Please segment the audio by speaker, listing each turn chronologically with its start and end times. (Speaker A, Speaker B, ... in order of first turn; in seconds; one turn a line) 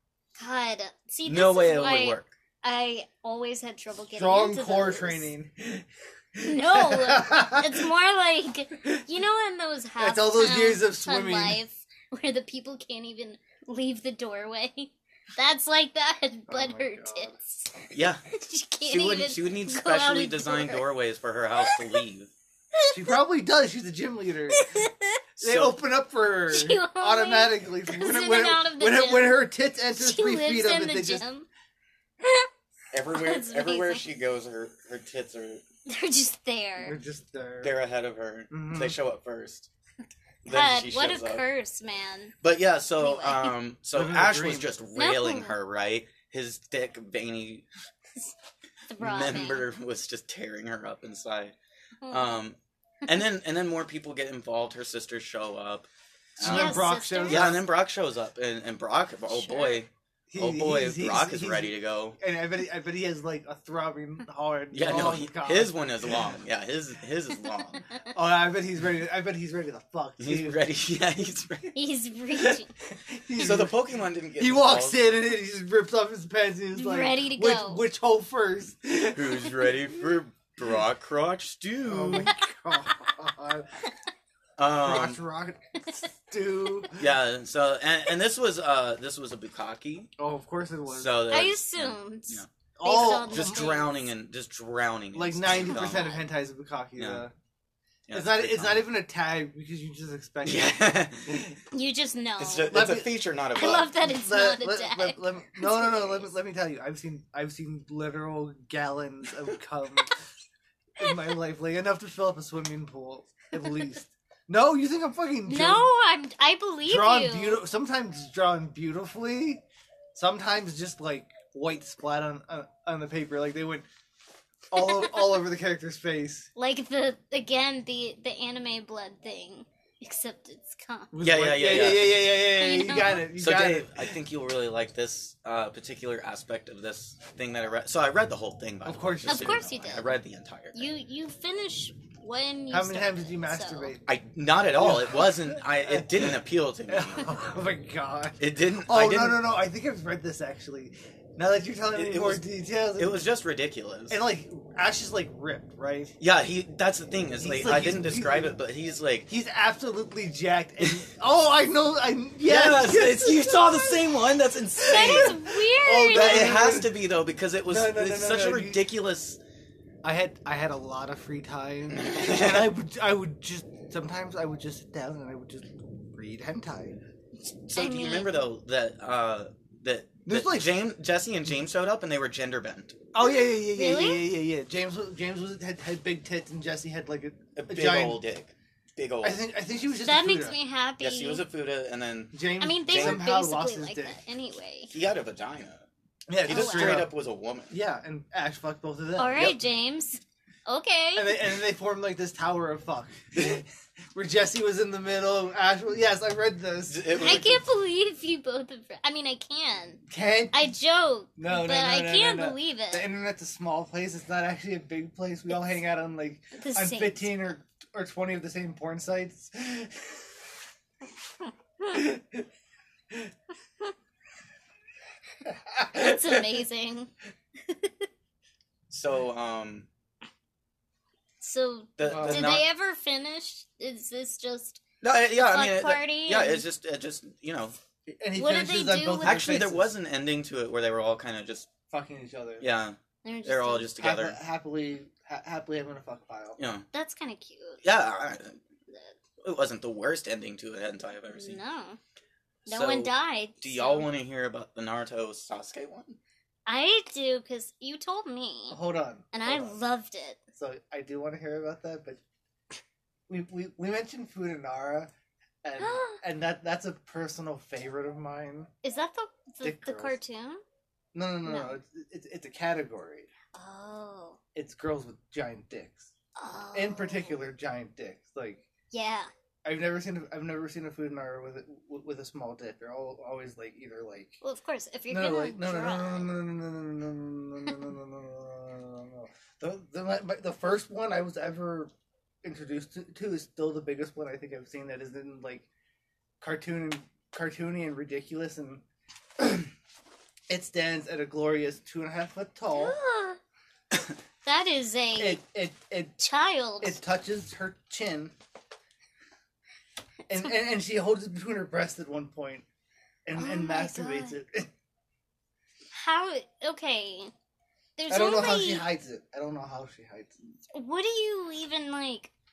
Speaker A: 0.3-5.3
Speaker B: 1.2-2.3
Speaker C: 4.1-7.8
Speaker A: 6.4-20.8
Speaker C: 10.0-11.6
Speaker C: 16.5-17.3
Speaker B: 17.9-18.2
Speaker B: 18.8-22.3
Speaker A: 21.5-22.0
Speaker A: 22.7-23.2
Speaker C: 22.9-24.8
Speaker A: 24.5-25.2
Speaker C: 25.4-31.2
Speaker B: 25.4-25.8
Speaker A: 26.5-31.4
Speaker A: 32.2-32.5
Speaker B: 32.9-35.6
Speaker A: 33.1-34.0
Speaker A: 35.9-37.0
Speaker C: 36.8-37.7
Speaker B: 37.6-39.7
Speaker C: 38.5-39.0
Speaker B: 40.4-41.4
Speaker A: 40.4-42.3
Speaker B: 42.4-47.6
Speaker A: 43.0-43.5
Speaker C: 43.9-44.7
Speaker A: 44.9-45.6
Speaker A: 48.9-49.6
Speaker B: 49.0-51.5
Speaker A: 52.0-52.4
Speaker B: 52.1-55.9
Speaker B: 56.4-62.2
Speaker C: 56.4-57.6
Speaker A: 56.4-57.6
Speaker A: 59.3-59.8
Speaker C: 60.3-66.3
Speaker B: 64.7-67.8
Speaker C: 68.1-70.6
Speaker B: 70.2-71.7
Speaker A: 71.7-72.7
Speaker C: 72.3-73.8
Speaker B: 73.3-75.1
Speaker C: 74.4-79.7
Speaker A: 76.8-77.8
Speaker B: 79.1-82.3
Speaker C: 81.8-83.8
Speaker A: 82.3-83.1
Speaker B: 84.6-85.2
Speaker C: 84.7-87.0
Speaker B: 87.0-90.1
Speaker C: 90.2-91.3
Speaker B: 90.9-96.2
Speaker A: 91.3-94.0
Speaker C: 92.8-93.8
Speaker C: 95.1-97.3
Speaker A: 95.7-96.1
Speaker B: 97.0-97.2
Speaker B: 98.1-98.9
Speaker C: 98.1-101.6
Speaker B: 100.4-101.4
Speaker A: 101.7-102.7
Speaker B: 102.4-103.9
Speaker C: 102.7-110.2
Speaker A: 103.5-106.3
Speaker C: 111.0-115.9
Speaker A: 115.5-117.6
Speaker C: 116.8-119.6
Speaker C: 120.1-123.8
Speaker C: 124.7-126.5
Speaker A: 124.8-125.3
Speaker A: 126.5-131.1
Speaker C: 131.1-134.2
Speaker B: 131.2-132.3
Speaker A: 132.5-133.3
Speaker B: 133.0-140.9
Speaker C: 138.8-139.6
Speaker A: 139.2-140.2
Speaker A: 140.7-144.0
Speaker C: 142.7-144.0
Speaker B: 144.1-147.3
Speaker C: 144.8-146.4
Speaker C: 146.9-153.2
Speaker B: 148.4-149.4
Speaker B: 151.9-152.4
Speaker B: 152.9-154.2
Speaker C: 154.1-156.2
Speaker B: 156.2-159.3
Speaker C: 157.4-158.6
Speaker C: 159.3-166.9
Speaker B: 162.4-169.4
Speaker A: 164.8-166.6
Speaker C: 167.7-168.9
Speaker C: 170.0-177.0
Speaker B: 171.9-172.7
Speaker B: 177.4-183.0
Speaker A: 177.7-178.4
Speaker C: 180.2-180.8
Speaker C: 183.1-188.2
Speaker A: 183.2-184.2
Speaker B: 187.6-189.4
Speaker C: 189.2-190.6
Speaker A: 190.0-191.4
Speaker B: 191.0-193.2
Speaker C: 192.3-194.2
Speaker A: 192.6-194.9
Speaker B: 194.9-195.8
Speaker C: 196.3-197.1
Speaker B: 196.4-197.7
Speaker A: 196.5-197.0
Speaker C: 197.7-199.6
Speaker A: 199.2-201.4
Speaker C: 201.2-207.5
Speaker B: 206.9-207.6
Speaker A: 207.1-213.1
Speaker C: 210.1-210.7
Speaker C: 211.4-220.2
Speaker A: 216.5-217.4
Speaker A: 221.4-222.0
Speaker C: 221.9-222.4
Speaker C: 225.4-226.4
Speaker A: 225.9-227.1
Speaker A: 227.6-228.1
Speaker B: 228.9-229.9
Speaker A: 231.4-234.8
Speaker B: 232.0-232.7
Speaker C: 232.0-232.5
Speaker B: 235.0-237.8
Speaker A: 235.4-236.6
Speaker C: 238.1-239.9
Speaker A: 238.3-239.7
Speaker B: 239.2-241.7
Speaker C: 241.9-242.7
Speaker B: 242.6-244.4
Speaker A: 243.2-243.9
Speaker C: 244.0-246.6
Speaker B: 246.6-246.9
Speaker A: 246.9-247.8
Speaker B: 247.8-248.6
Speaker B: 249.4-251.6
Speaker A: 251.3-252.0
Speaker A: 252.7-254.1
Speaker B: 252.7-256.2
Speaker A: 256.6-258.8
Speaker C: 258.7-259.7
Speaker A: 259.3-260.4
Speaker C: 260.6-262.2
Speaker C: 263.3-265.1
Speaker C: 265.6-268.7
Speaker A: 265.8-266.2
Speaker A: 268.8-270.6
Speaker C: 269.6-270.2
Speaker C: 271.1-273.3
Speaker A: 271.4-271.8
Speaker A: 273.5-274.4
Speaker C: 274.5-276.1
Speaker A: 276.4-277.4
Speaker C: 276.7-278.6
Speaker A: 278.9-279.3
Speaker C: 279.6-284.4
Speaker A: 284.4-286.3
Speaker C: 285.1-291.9
Speaker C: 292.4-295.7
Speaker C: 296.4-298.8
Speaker C: 299.4-299.7
Speaker C: 300.5-303.0
Speaker A: 302.7-303.4
Speaker A: 304.4-305.4
Speaker C: 305.1-306.1
Speaker A: 306.2-307.0
Speaker C: 306.8-308.3
Speaker C: 310.3-312.6
Speaker C: 313.2-314.7
Speaker A: 313.4-314.3
Speaker A: 315.9-317.3
Speaker A: 318.0-318.9
Speaker C: 318.1-320.6
Speaker A: 320.7-322.3